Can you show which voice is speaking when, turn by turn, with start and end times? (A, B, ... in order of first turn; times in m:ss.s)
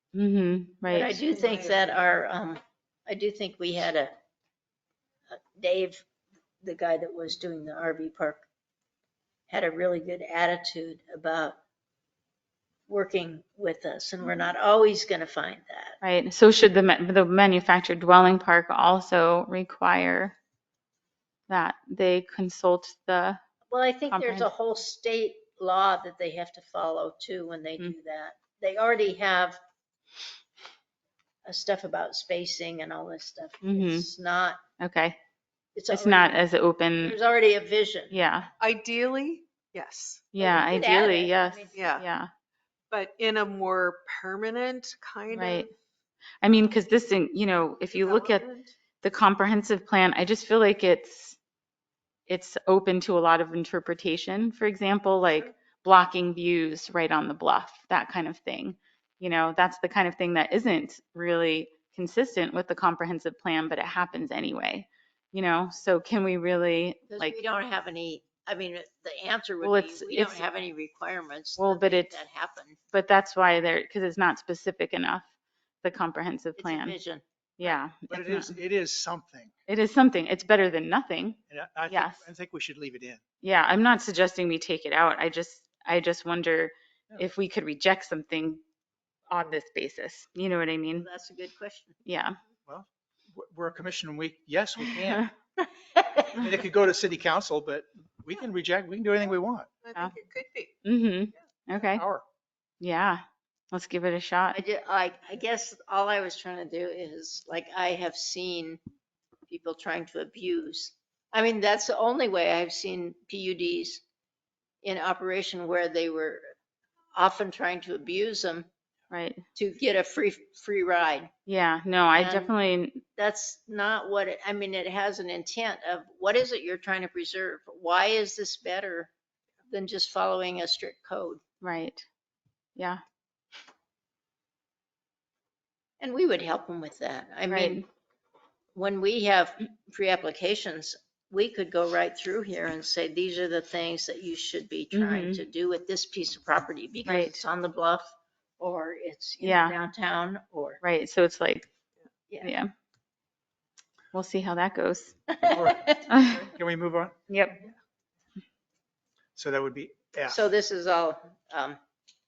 0:00.1-0:01.2 A
0:00.9-0:04.1 B
0:01.3-0:01.8 C
0:05.3-0:06.0 B
0:06.6-0:08.5 B
0:09.5-0:11.6 B
0:12.9-0:16.0 B
0:16.0-0:20.4 A
0:21.5-0:23.4 A
0:23.7-0:29.6 B
0:24.1-0:24.5 A
0:31.4-0:34.6 B
0:33.6-0:34.1 A
0:34.8-0:35.2 A
0:35.8-0:36.4 B
0:35.9-0:37.2 A
0:37.0-0:38.2 B
0:38.1-0:38.5 A
0:38.6-0:40.4 C
0:40.3-0:42.3 A
0:40.4-0:41.8 B
0:41.8-0:42.0 C
0:42.9-0:45.7 C
0:45.3-0:45.7 A
0:46.4-0:48.4 A
0:47.9-0:48.7 C
0:49.0-0:51.4 A
0:52.3-1:07.4 A
1:07.1-1:12.8 B
1:09.6-1:10.4 A
1:11.6-1:12.2 A
1:12.9-1:15.3 A
1:15.8-1:17.0 A
1:16.6-1:17.2 B
1:17.6-1:18.6 A
1:17.6-1:19.5 D
1:19.7-1:22.2 A
1:21.5-1:23.2 D
1:23.4-1:28.6 A
1:29.3-1:31.1 A
1:31.0-1:32.0 B
1:32.0-1:32.4 A
1:32.7-1:35.3 D
1:36.3-1:39.7 D
1:39.8-1:40.8 C
1:40.8-1:42.0 A
1:41.8-1:42.2 D
1:42.8-1:43.2 A
1:43.7-1:44.6 A
1:44.5-1:48.8 B
1:49.5-1:54.0 B
1:54.8-1:56.4 B
1:57.2-1:58.7 B
1:59.1-1:59.4 A
1:59.6-2:01.3 B
2:01.5-2:03.0 A
2:02.2-2:02.5 B
2:03.2-2:09.1 B
2:09.7-2:11.4 B
2:11.6-2:12.0 A
2:16.0-2:17.8 B
2:17.5-2:17.8 A
2:18.8-2:30.8 B
2:24.9-2:25.4 A
2:27.0-2:27.4 A
2:29.4-2:29.8 A
2:30.8-2:31.7 A
2:32.4-2:32.7 A
2:34.1-2:35.2 A
2:35.4-2:35.9 B
2:35.5-2:37.2 D
2:36.1-2:36.5 A
2:37.3-2:37.6 A
2:39.4-2:40.4 D
2:40.3-2:41.8 B